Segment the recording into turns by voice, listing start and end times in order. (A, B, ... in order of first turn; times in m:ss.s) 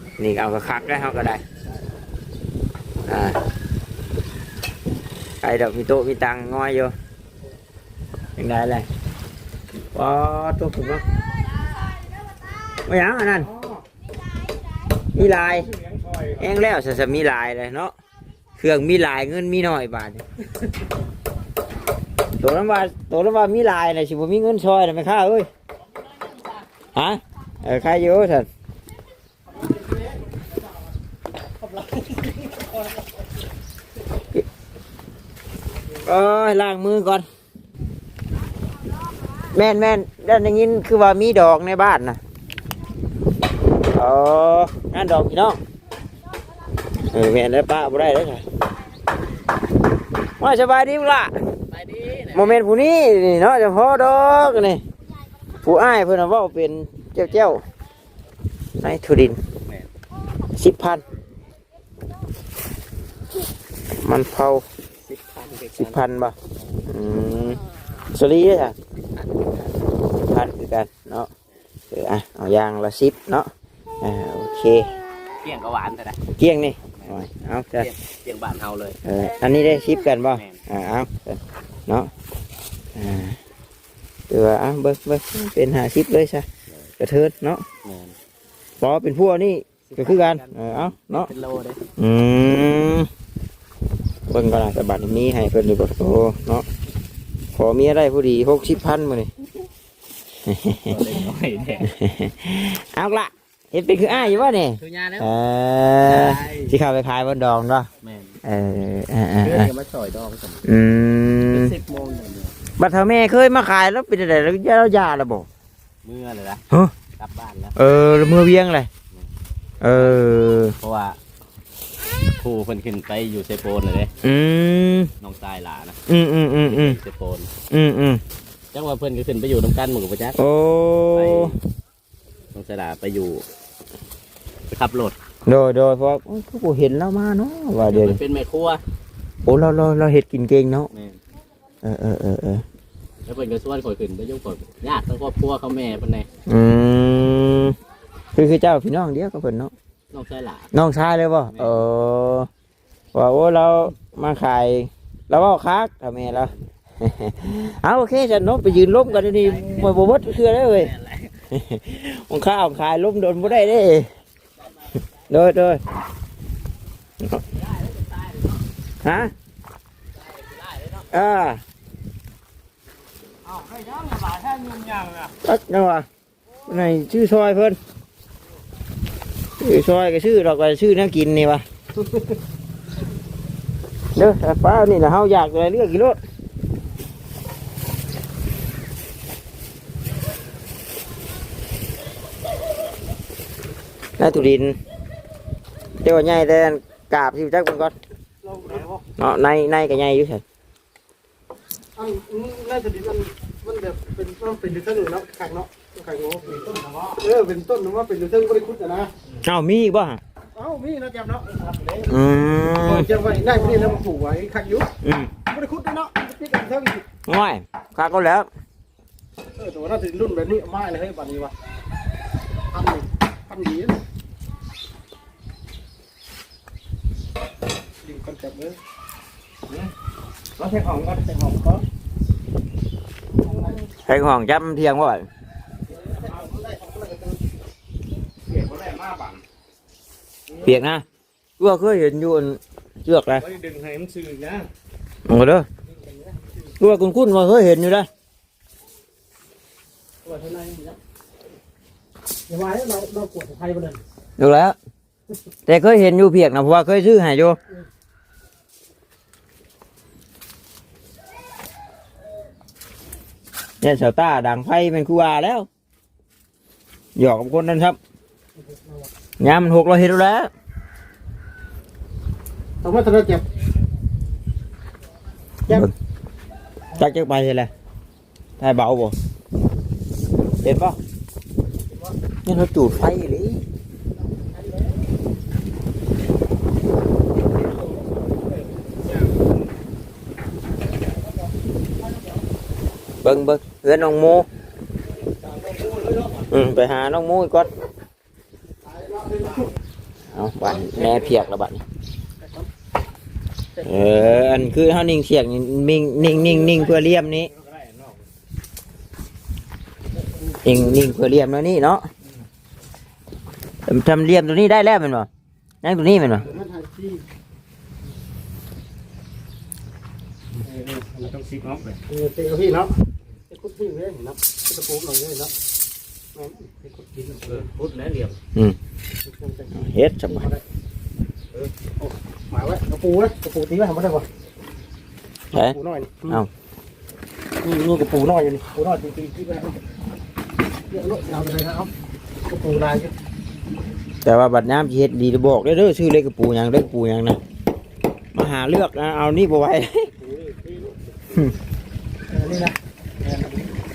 0:00.2-0:01.4 A
0:03.1-0:03.4 A
0:05.4-0:06.9 A
0:08.4-0:08.9 A
0:09.9-0:11.0 A
0:12.9-0:13.5 A
0:13.4-0:13.8 B
0:15.2-0:15.7 A
0:15.2-0:16.6 B
0:16.4-0:18.0 A
0:18.6-0:20.2 A
0:22.4-0:25.5 A
0:26.9-0:28.5 A
0:29.5-0:30.7 C
0:31.6-0:32.8 C
0:36.0-0:37.3 A
0:39.5-0:42.2 A
0:43.9-0:45.6 A
0:47.1-0:48.4 A
0:50.4-0:51.3 A
0:51.7-0:52.6 D
0:52.3-0:54.8 A
0:55.6-0:57.6 A
0:58.8-0:59.4 A
1:00.6-1:01.0 A
1:04.0-1:04.6 A
1:05.0-1:06.0 D
1:05.8-1:06.4 A
1:06.9-1:07.6 A
1:08.1-1:08.8 A
1:10.2-1:11.3 A
1:11.9-1:13.5 A
1:14.0-1:14.9 A
1:15.4-1:16.2 D
1:16.4-1:17.9 A
1:16.9-1:17.2 D
1:17.8-1:19.0 D
1:19.0-1:22.1 A
1:20.3-1:20.6 D
1:23.0-1:23.4 A
1:24.3-1:26.5 A
1:27.0-1:27.7 A
1:27.8-1:28.2 D
1:28.8-1:31.3 A
1:29.9-1:31.8 D
1:32.0-1:33.1 A
1:34.3-1:36.6 A
1:37.6-1:39.3 A
1:40.4-1:41.2 A
1:40.9-1:41.9 D
1:41.8-1:47.9 A
1:44.0-1:45.3 D
1:46.0-1:46.7 D
1:48.0-1:48.4 D
1:48.4-1:49.7 A
1:49.4-1:50.6 D
1:50.6-1:51.8 A
1:51.5-1:52.6 D
1:52.8-1:55.5 A
1:56.0-1:57.7 D
1:57.8-1:58.9 A
1:59.8-2:00.8 A
1:59.9-2:00.2 D
2:00.8-2:01.2 D
2:02.4-2:04.1 D
2:04.2-2:05.1 A
2:05.2-2:06.0 D
2:06.1-2:07.0 A
2:06.6-2:07.5 D
2:07.7-2:08.2 A
2:08.7-2:10.4 D
2:10.4-2:11.6 A
2:11.1-2:11.6 D
2:12.5-2:13.4 D
2:14.7-2:15.2 D
2:15.5-2:18.2 A
2:17.9-2:18.8 D
2:19.5-2:20.9 A
2:20.9-2:21.2 D
2:21.8-2:22.6 A
2:23.3-2:26.3 D
2:26.5-2:27.8 A
2:28.4-2:29.7 A
2:30.1-2:30.7 D
2:30.7-2:32.5 A
2:31.5-2:31.8 D
2:33.1-2:40.9 A
2:38.8-2:39.9 D
2:40.8-2:41.3 D
2:41.5-2:44.1 A
2:45.3-2:45.8 A
2:47.6-2:48.5 D
2:49.0-2:49.3 A
2:50.2-2:51.1 D
2:51.1-2:51.6 A
2:53.4-2:55.4 B
2:55.4-2:56.1 A
2:56.7-2:57.8 A
2:59.6-3:01.6 A
3:04.2-3:06.2 A
3:14.2-3:14.8 A
3:16.0-3:17.9 A
3:18.4-3:19.0 C
3:19.2-3:20.4 A
3:22.0-3:26.7 C
3:26.4-3:27.2 B
3:27.2-3:29.1 C
3:29.4-3:30.2 A
3:30.6-3:32.1 C
3:32.1-3:33.1 A
3:32.8-3:34.9 C
3:33.2-3:34.0 B
3:35.0-3:35.3 A
3:35.5-3:37.0 C
3:37.3-3:38.5 A
3:39.6-3:41.5 C
3:42.7-3:44.0 C
3:48.0-3:48.8 C
3:50.6-3:51.3 B
3:51.3-3:51.8 C
3:53.4-3:53.8 C
3:54.1-3:55.3 A
3:55.9-3:57.4 C
3:58.5-3:59.4 B
4:00.5-4:00.8 B
4:00.6-4:01.0 A
4:01.6-4:03.5 A
4:03.4-4:04.7 B
4:05.3-4:05.7 A
4:05.8-4:06.8 C
4:06.8-4:08.1 A
4:10.2-4:11.0 C
4:12.5-4:14.0 C
4:14.4-4:14.8 A
4:15.7-4:17.6 A
4:23.8-4:25.7 A
4:27.2-4:28.0 A
4:28.6-4:29.1 C
4:29.4-4:30.5 A
4:32.8-4:33.4 C
4:35.7-4:35.9 A
4:37.0-4:37.7 A
4:38.6-4:39.2 A
4:40.6-4:41.0 A
4:41.9-4:42.2 C
4:42.5-4:43.6 A
4:44.2-4:45.1 C
4:48.9-4:49.6 B
4:51.0-4:52.4 C
4:53.2-4:54.5 A
4:55.5-4:56.2 C
4:55.7-4:56.4 B
4:56.5-4:57.7 A
4:58.8-4:59.7 C
5:00.3-5:01.8 A
5:01.0-5:01.4 B
5:02.4-5:02.7 C
5:03.8-5:04.1 C
5:03.8-5:07.5 A
5:06.2-5:08.2 B
5:10.3-5:10.6 C
5:10.6-5:12.1 A
5:13.9-5:15.3 A
5:15.8-5:16.5 A
5:16.4-5:17.2 C
5:20.5-5:22.0 B
5:22.1-5:23.0 C
5:23.5-5:25.5 C
5:26.4-5:27.7 C
5:27.5-5:28.4 B
5:29.2-5:30.6 C
5:29.8-5:30.5 A
5:32.0-5:34.3 C
5:35.5-5:36.4 C
5:37.6-5:39.8 C
5:40.9-5:41.9 C
5:42.5-5:43.1 C
5:44.2-5:47.4 A
5:48.3-5:50.1 A
5:50.3-5:50.9 C
5:52.3-5:53.7 C